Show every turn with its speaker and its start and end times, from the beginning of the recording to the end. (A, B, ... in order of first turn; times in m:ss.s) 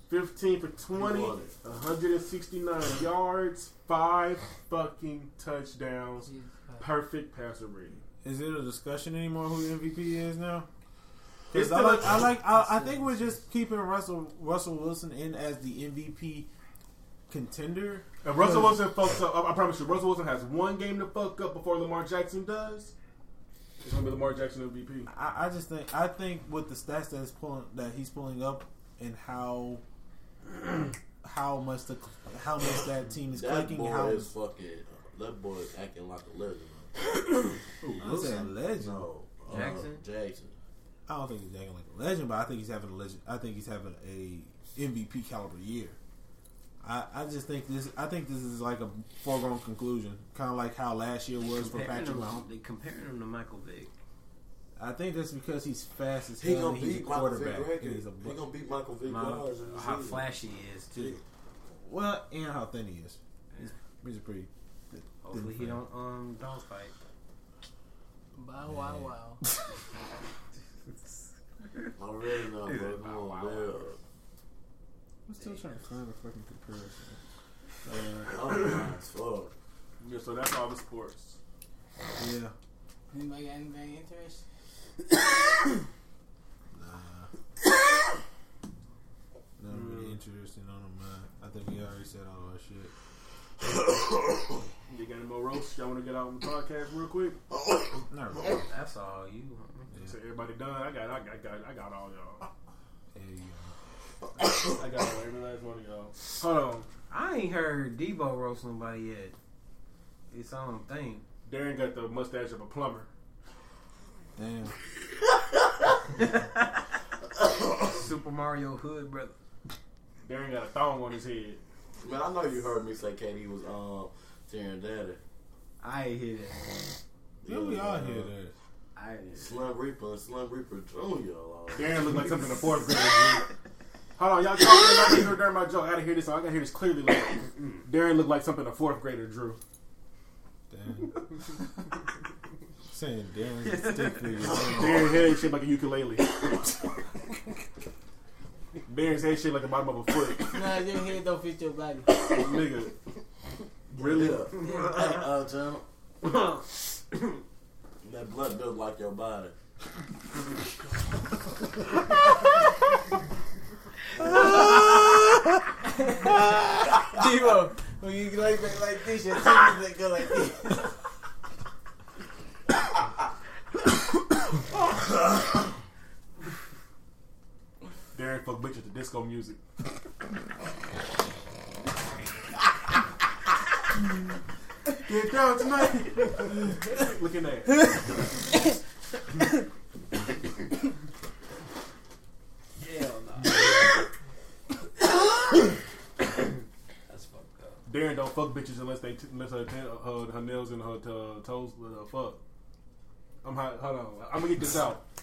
0:00.1-0:06.3 A
0:00.9-0:01.5 B
0:06.2-0:06.8 C
0:06.8-0:08.0 A
0:08.2-0:10.7 D
0:11.5-0:16.5 D
0:11.5-0:12.3 A
0:12.5-0:13.4 C
0:17.3-0:18.8 D
0:18.2-0:22.9 A
0:23.8-0:25.1 A
0:25.1-0:29.8 D
0:31.2-0:34.3 D
0:33.3-0:36.9 B
0:37.8-0:38.5 E
0:38.0-0:39.6 D
0:38.7-0:40.5 B
0:39.5-0:40.0 E
0:41.1-0:46.0 D
0:46.8-0:52.4 D
0:51.5-0:53.9 E
0:54.8-0:58.4 D
0:56.4-1:00.3 B
0:59.1-1:01.2 E
1:00.9-1:01.2 B
1:01.7-1:05.8 D
1:05.2-1:06.9 E
1:08.4-1:09.4 C
1:08.7-1:09.1 D
1:10.8-1:11.9 E
1:12.0-1:14.0 B
1:12.6-1:13.8 E
1:15.3-1:17.2 D
1:15.4-1:15.8 E
1:17.8-1:18.7 D
1:18.2-1:19.5 B
1:20.0-1:21.4 A
1:22.2-1:22.5 D
1:23.1-1:24.4 C
1:26.7-1:27.3 D
1:29.6-1:32.9 D
1:29.7-1:30.2 A
1:34.9-1:37.4 A
1:38.1-1:38.7 D
1:38.4-1:39.9 E
1:40.0-1:42.4 A
1:43.1-1:43.7 D
1:44.6-1:46.9 A
1:47.1-1:49.3 E
1:50.3-1:51.2 E
1:51.4-1:53.1 A
1:54.4-1:54.7 D
1:56.2-1:56.8 E
1:57.4-1:58.1 B
1:57.9-1:59.3 E
2:00.2-2:01.6 A
2:02.0-2:05.2 B
2:05.8-2:06.7 E
2:07.4-2:08.3 B
2:07.5-2:08.5 D
2:09.0-2:09.6 E
2:09.4-2:12.0 B
2:11.7-2:13.5 A
2:14.2-2:19.6 A
2:17.6-2:17.8 E
2:20.7-2:21.1 D
2:22.9-2:25.2 D
2:23.6-2:24.5 E
2:24.7-2:26.4 A
2:28.9-2:30.8 A
2:30.5-2:32.1 C
2:32.2-2:32.9 A
2:33.9-2:34.5 A
2:33.9-2:35.8 B
2:34.6-2:35.2 E
2:34.6-2:35.0 C
2:36.2-2:37.4 E
2:38.0-2:39.5 B
2:45.8-2:51.0 C
2:58.1-2:59.6 A
3:05.0-3:08.1 A
3:12.8-3:14.0 E
3:17.1-3:17.8 E
3:17.8-3:22.4 A
3:23.4-3:25.0 A